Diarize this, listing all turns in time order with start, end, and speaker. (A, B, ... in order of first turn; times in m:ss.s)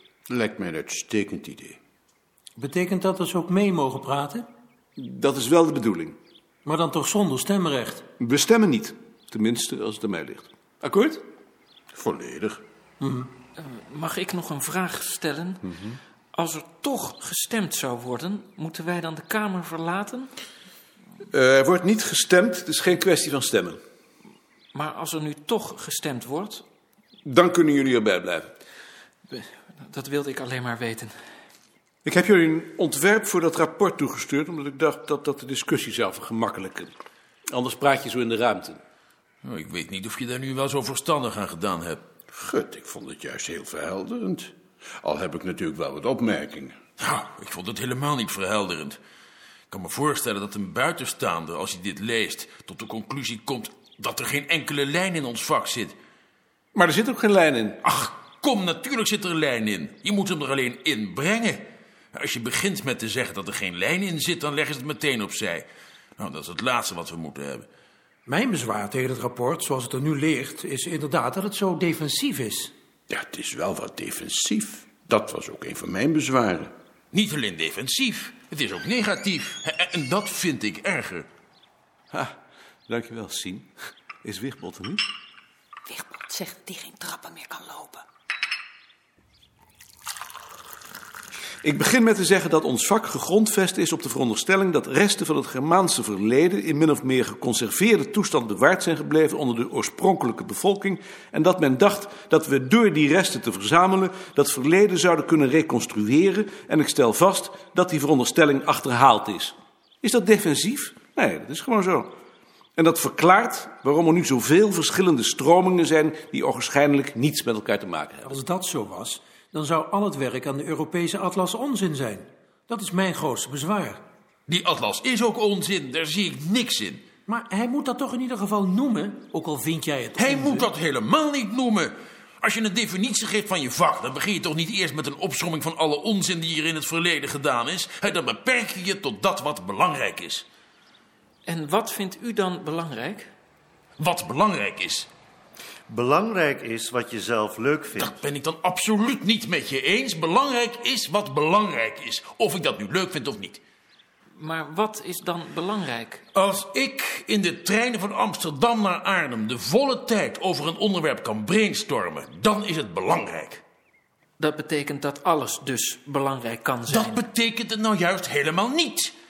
0:00.3-0:01.8 A
0:02.6-0:04.4 B
0:05.0-0:06.2 C
0:06.6-0:08.0 B
0:08.2-0:11.2 C
0:11.9-0:12.6 A
0:13.0-0:13.3 B
0:13.6-0:15.6 D
0:15.7-0:16.0 C
0:16.3-0:20.3 D
0:21.3-0:23.8 C
0:24.7-0:26.6 D
0:27.2-0:28.5 C
0:29.3-0:31.1 D
0:32.0-0:36.9 C
0:37.5-0:38.8 C
0:39.4-0:42.0 E
0:42.3-0:46.8 A
0:47.0-0:49.0 E
0:49.7-0:55.9 E
0:56.7-0:57.8 C
0:57.8-1:07.7 E
1:08.2-1:12.7 B
1:13.1-1:16.7 A
1:17.1-1:21.3 E
1:22.9-1:23.7 C
1:24.2-1:25.0 C
1:25.9-1:28.0 F
1:31.6-1:52.1 C
1:52.8-1:58.3 C
1:58.2-2:04.0 B
2:04.5-2:07.0 E
2:07.3-2:10.7 B
2:10.2-2:20.4 E
2:21.4-2:23.3 D
2:24.0-2:25.1 E
2:25.9-2:28.2 G
2:27.9-2:33.6 E
2:34.4-2:36.2 D
2:36.3-2:43.6 E
2:44.4-2:47.2 D
2:46.9-2:49.1 E